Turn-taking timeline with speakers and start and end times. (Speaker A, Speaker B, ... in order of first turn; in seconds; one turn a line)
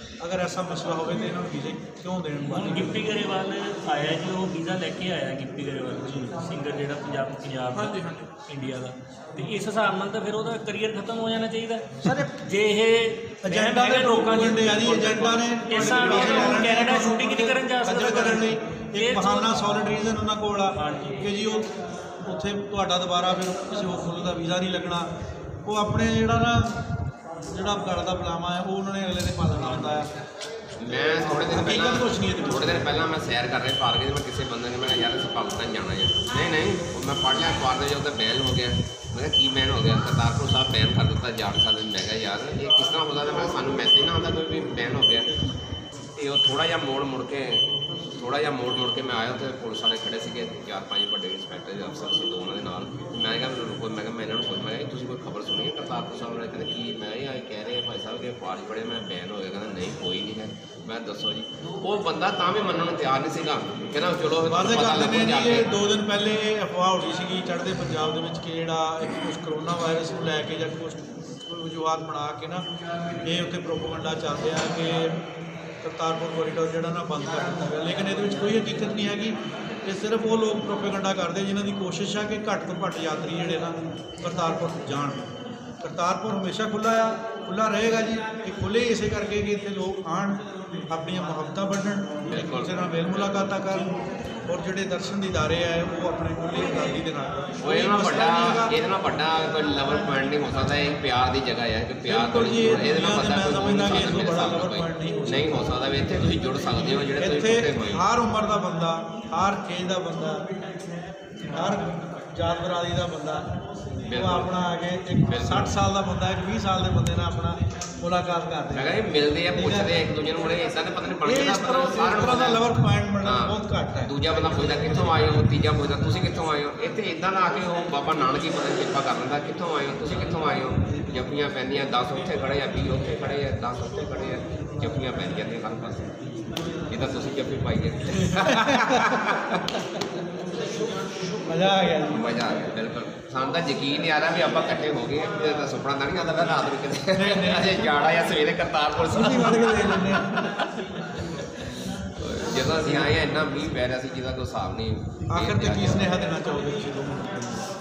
Speaker A: 0.2-3.1
Speaker B: 2.4-20.0
Speaker A: 6.0-6.3
Speaker A: 12.0-12.3
Speaker A: 13.4-21.7
Speaker B: 20.7-21.2
Speaker A: 22.2-25.1
Speaker A: 25.6-26.8
Speaker A: 27.4-30.1
Speaker C: 30.8-45.3
Speaker A: 31.0-33.1
Speaker C: 46.1-65.7
Speaker A: 64.5-72.6
Speaker A: 73.2-75.2
Speaker A: 75.8-85.3
Speaker A: 85.8-93.9
Speaker C: 92.3-93.7
Speaker A: 94.5-98.8
Speaker C: 97.6-108.0
Speaker A: 102.0-110.4
Speaker A: 111.5-113.5
Speaker C: 114.1-114.5
Speaker A: 114.1-120.1
Speaker C: 115.2-115.7
Speaker C: 118.7-122.7
Speaker A: 121.2-125.4
Speaker C: 123.2-136.3
Speaker C: 136.9-139.6
Speaker A: 138.3-139.6
Speaker A: 141.4-142.3
Speaker C: 142.1-150.7
Speaker A: 147.1-147.9
Speaker A: 149.1-150.5
Speaker C: 152.2-156.1
Speaker A: 155.3-157.6